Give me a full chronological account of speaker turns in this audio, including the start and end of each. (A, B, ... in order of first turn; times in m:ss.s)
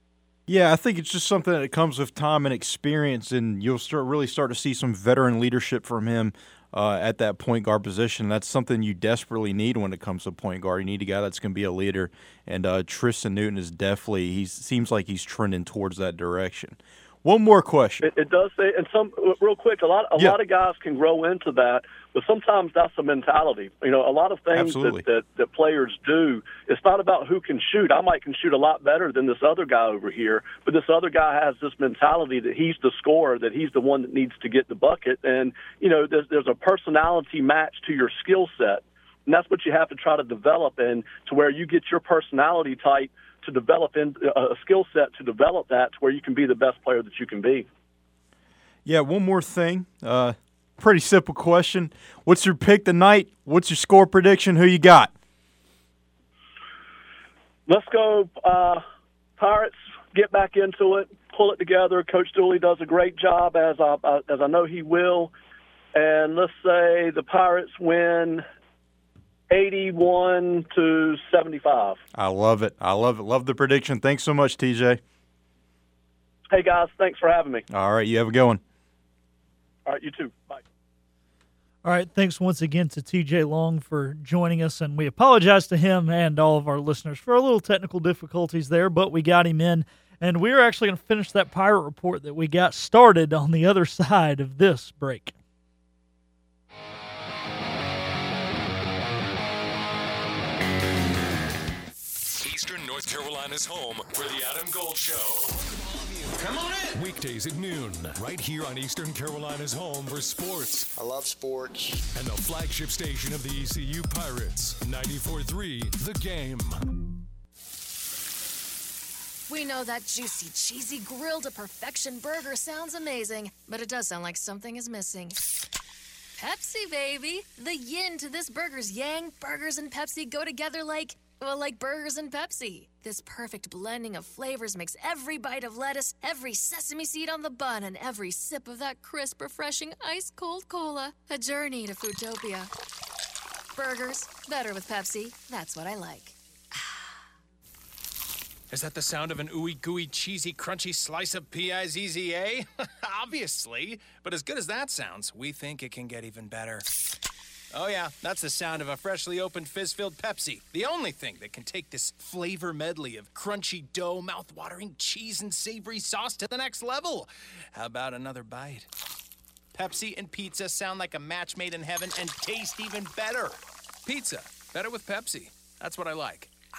0:00.5-0:18.0 A
0:18.0-0:47.7 B
0:24.5-0:25.0 A
0:48.8-0:55.1 A
0:57.7-0:58.8 B
0:59.4-1:05.3 B
1:06.0-1:08.4 B
1:09.5-1:12.0 B
1:12.1-1:15.0 A
1:16.5-1:17.6 B
1:17.7-1:18.6 A
1:19.9-1:20.6 B
1:21.8-1:35.3 C
1:42.4-1:45.6 D
1:46.9-1:50.9 D
1:52.1-1:56.9 D
1:59.5-2:05.5 E
2:06.4-2:22.7 E
2:23.8-2:27.1 E
2:28.7-2:36.9 F
2:37.7-2:48.9 F
2:49.7-2:56.6 F